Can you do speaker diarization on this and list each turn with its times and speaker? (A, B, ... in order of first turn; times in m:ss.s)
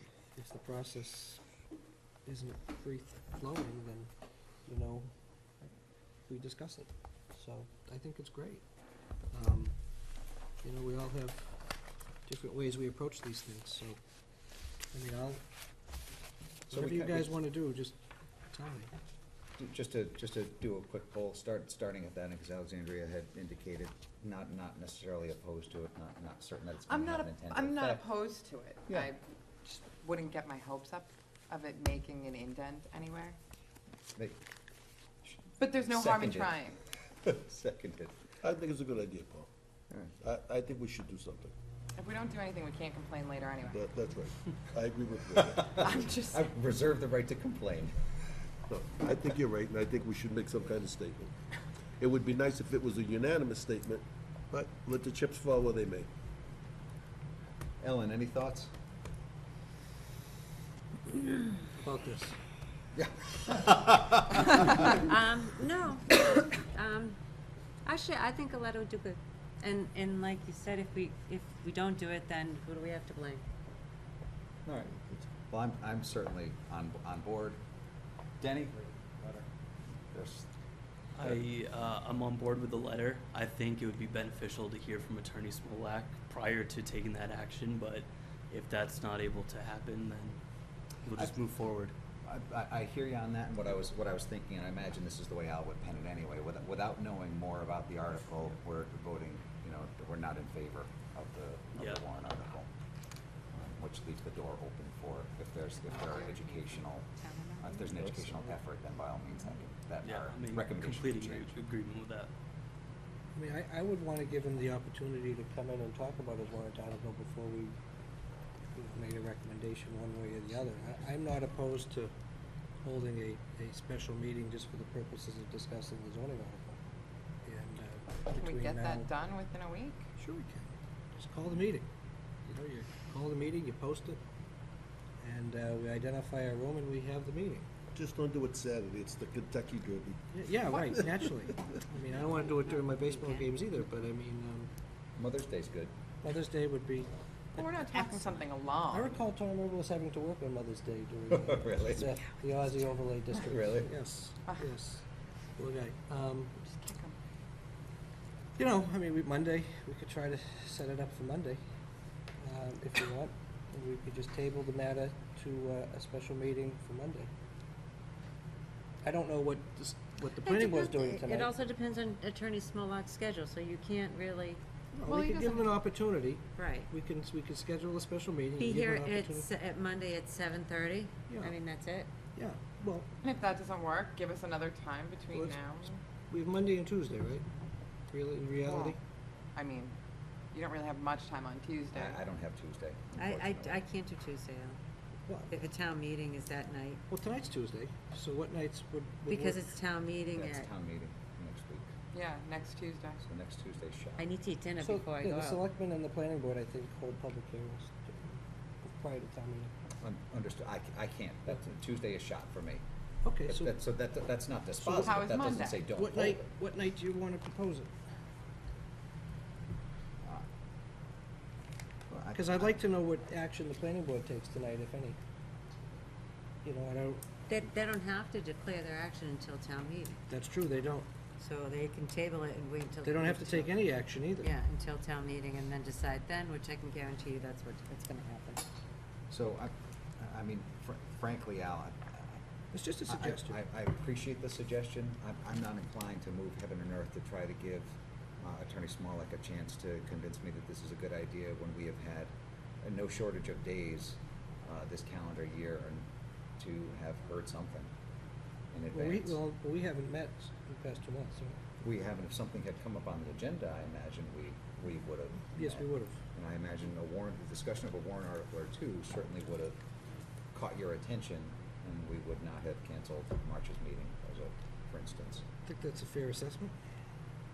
0:00.4-0:01.4 A
0:02.2-0:04.1 A
0:04.6-0:05.1 A
0:06.3-0:08.6 A
0:09.3-0:09.8 A
0:10.6-0:11.6 A
0:12.3-0:14.0 A
0:14.9-0:15.4 A
0:16.7-0:17.3 B
0:16.7-0:18.0 A
0:18.5-0:18.9 A
0:19.6-0:28.1 B
0:26.9-0:33.4 C
0:35.2-0:36.7 B
0:35.6-0:36.8 C
0:37.2-0:38.3 B
0:38.4-0:39.5 D
0:40.2-0:41.5 D
0:42.0-0:43.8 C
0:43.7-0:45.8 D
0:45.4-0:48.0 B
0:45.7-0:46.5 C
0:48.7-0:51.3 D
0:52.0-0:56.1 D
0:57.8-0:58.7 B
1:01.8-1:02.4 A
1:03.0-1:04.8 B
1:05.0-1:07.2 E
1:07.8-1:13.4 E
1:14.6-1:17.6 B
1:18.4-1:19.5 B
1:20.1-1:20.5 B
1:21.2-1:30.4 F
1:31.0-1:31.9 F
1:32.2-1:42.7 B
1:41.8-1:42.0 F
1:43.5-1:47.1 B
1:47.6-1:51.6 B
1:47.8-1:48.6 A
1:50.0-1:52.3 F
1:53.4-1:57.8 A
1:58.7-2:02.1 A
2:02.8-2:06.8 A
2:07.4-2:09.1 A
2:08.4-2:10.1 C
2:10.2-2:11.9 A
2:12.5-2:14.2 A
2:15.2-2:17.7 A
2:17.9-2:20.2 D
2:20.3-2:24.7 A
2:22.2-2:23.5 E
2:25.2-2:25.9 B
2:26.2-2:27.1 A
2:27.6-2:29.2 C
2:28.9-2:35.0 A
2:31.3-2:32.1 B
2:33.3-2:33.9 B
2:35.6-2:36.5 A
2:36.6-2:37.2 C
2:38.6-2:41.6 A
2:42.4-2:47.3 A
2:49.0-2:51.6 A
2:50.4-2:54.6 E
2:54.9-2:59.5 A
2:55.1-2:55.8 C
2:56.6-2:56.9 E
2:58.6-3:02.1 E
3:01.3-3:01.6 A
3:02.4-3:03.1 A
3:03.2-3:06.0 C
3:05.3-3:05.6 A
3:06.3-3:07.5 A
3:08.1-3:09.0 A
3:08.6-3:09.0 C
3:09.6-3:10.0 C
3:10.5-3:12.2 C
3:11.9-3:13.8 B
3:13.2-3:14.8 E
3:15.3-3:15.6 A
3:15.5-3:17.0 E
3:17.1-3:19.7 A
3:19.3-3:20.7 E
3:20.3-3:21.9 B
3:22.1-3:23.2 C
3:23.2-3:24.3 B
3:24.2-3:25.6 E
3:24.8-3:29.7 A
3:30.0-3:32.8 B
3:33.2-3:33.8 A
3:33.4-3:36.5 B
3:34.8-3:35.2 A
3:35.0-3:35.8 C
3:35.9-3:37.9 A
3:42.1-3:42.7 B
3:42.3-3:45.2 A
3:46.6-3:47.3 A
3:47.5-3:50.2 E
3:50.3-3:51.1 A
3:51.4-3:53.8 E
3:53.0-3:54.5 A
3:54.4-3:58.7 E
3:59.3-4:02.4 B
4:02.7-4:03.6 A
4:03.1-4:17.9 B
4:18.7-4:19.4 B
4:18.9-4:21.6 A
4:21.8-4:29.8 B
4:25.5-4:26.2 A
4:30.5-4:35.4 B
4:35.6-4:36.7 A